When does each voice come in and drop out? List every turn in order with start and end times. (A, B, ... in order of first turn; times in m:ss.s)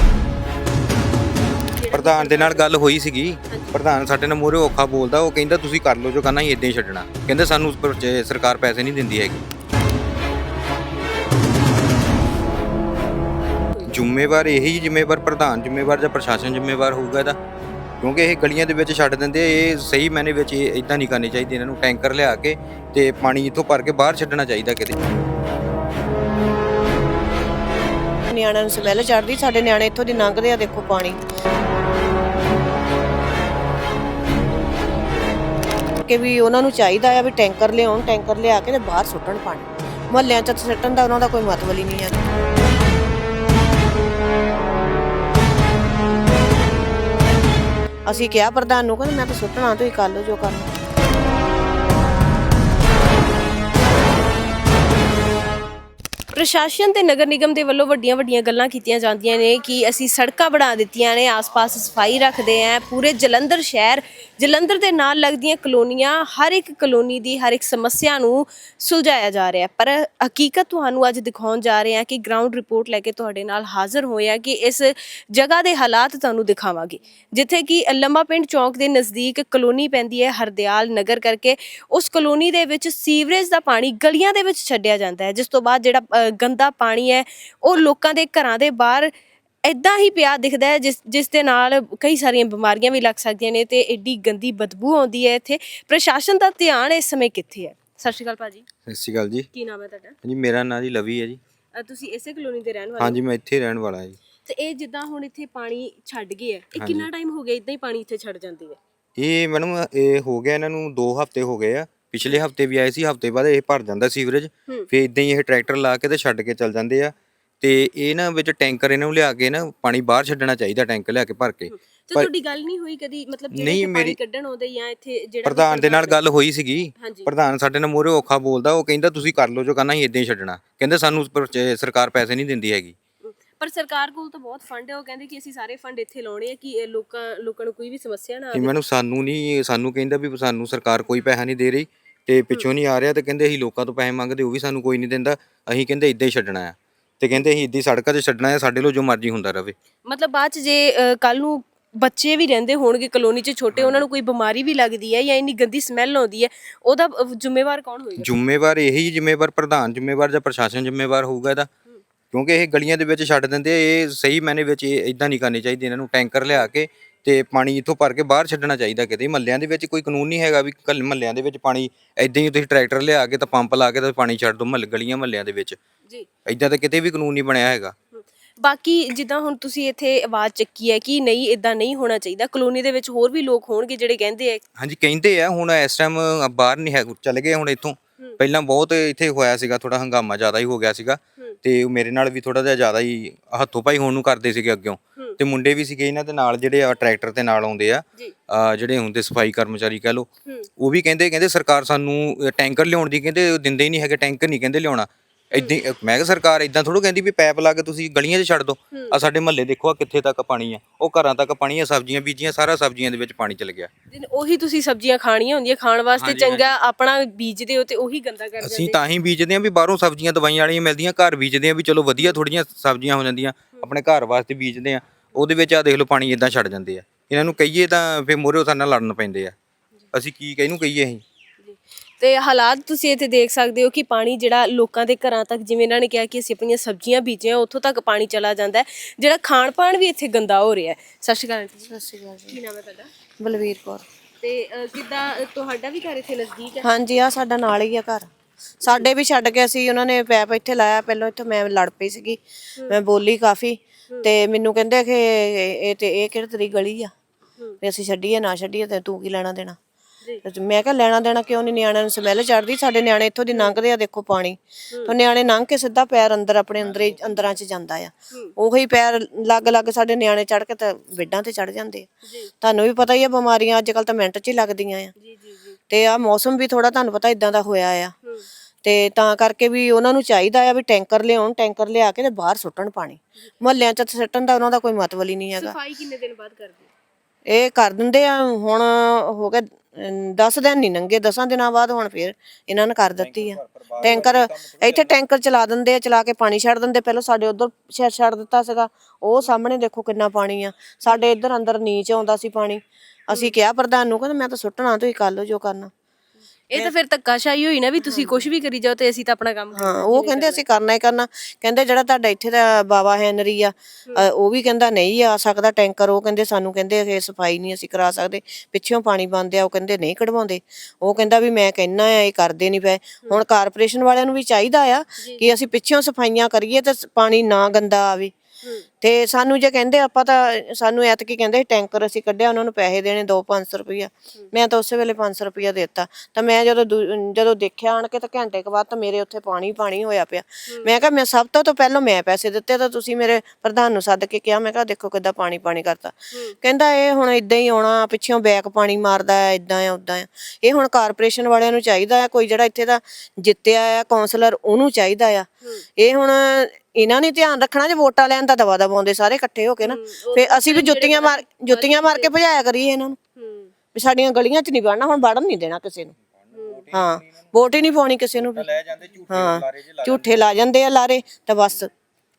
0:01.7-0:02.7 A
0:01.9-0:09.5 B
0:03.5-0:03.8 A
0:13.9-0:17.4 B
0:18.0-0:25.0 B
0:28.3-0:31.2 C
0:36.0-0:42.2 C
0:48.1-0:50.7 C
0:56.3-1:29.1 A
1:29.7-1:38.7 A
1:38.9-1:39.5 B
1:39.5-1:40.2 A
1:40.2-1:41.4 B
1:41.7-1:43.2 A
1:43.0-1:44.2 B
1:44.4-1:48.8 A
1:46.8-1:47.1 B
1:49.2-2:02.3 B
2:01.7-2:06.2 A
2:03.5-2:04.2 B
2:05.5-2:13.0 B
2:07.0-2:07.3 A
2:13.2-2:18.7 A
2:18.5-2:29.8 B
2:30.1-2:38.3 A
2:33.7-2:34.0 B
2:38.2-2:41.7 B
2:42.3-2:55.8 B
2:56.5-2:57.9 B
2:58.1-3:04.6 A
3:04.8-3:33.9 B
3:34.1-3:39.0 A
3:36.2-3:36.7 B
3:38.6-3:49.6 B
3:50.1-3:51.2 B
3:51.6-4:01.9 A
4:01.9-4:02.6 C
4:02.5-4:03.1 A
4:03.4-4:04.0 C
4:04.4-4:06.9 A
4:06.8-4:08.3 C
4:08.8-4:17.1 C
4:17.8-4:19.8 C
4:20.4-4:32.1 C
4:23.5-4:23.8 A
4:26.8-4:27.4 B
4:32.3-4:32.5 A
4:32.6-4:35.1 C
4:35.2-4:35.8 A
4:35.9-4:38.1 C
4:38.8-4:45.8 C
4:45.6-4:46.9 A
4:47.5-5:05.9 C
4:53.2-4:55.2 B
4:54.0-4:54.3 A
5:03.3-5:03.6 A
5:06.7-5:10.6 A
5:08.0-5:08.5 C
5:09.7-5:28.3 C
5:25.2-5:25.5 A
5:29.0-6:03.2 C
5:59.8-6:02.3 A
6:03.4-6:03.7 A
6:03.9-6:06.1 C
6:06.4-6:07.5 B
6:06.5-6:06.8 A
6:06.9-6:08.7 C
6:08.4-6:10.4 B
6:09.3-6:11.9 C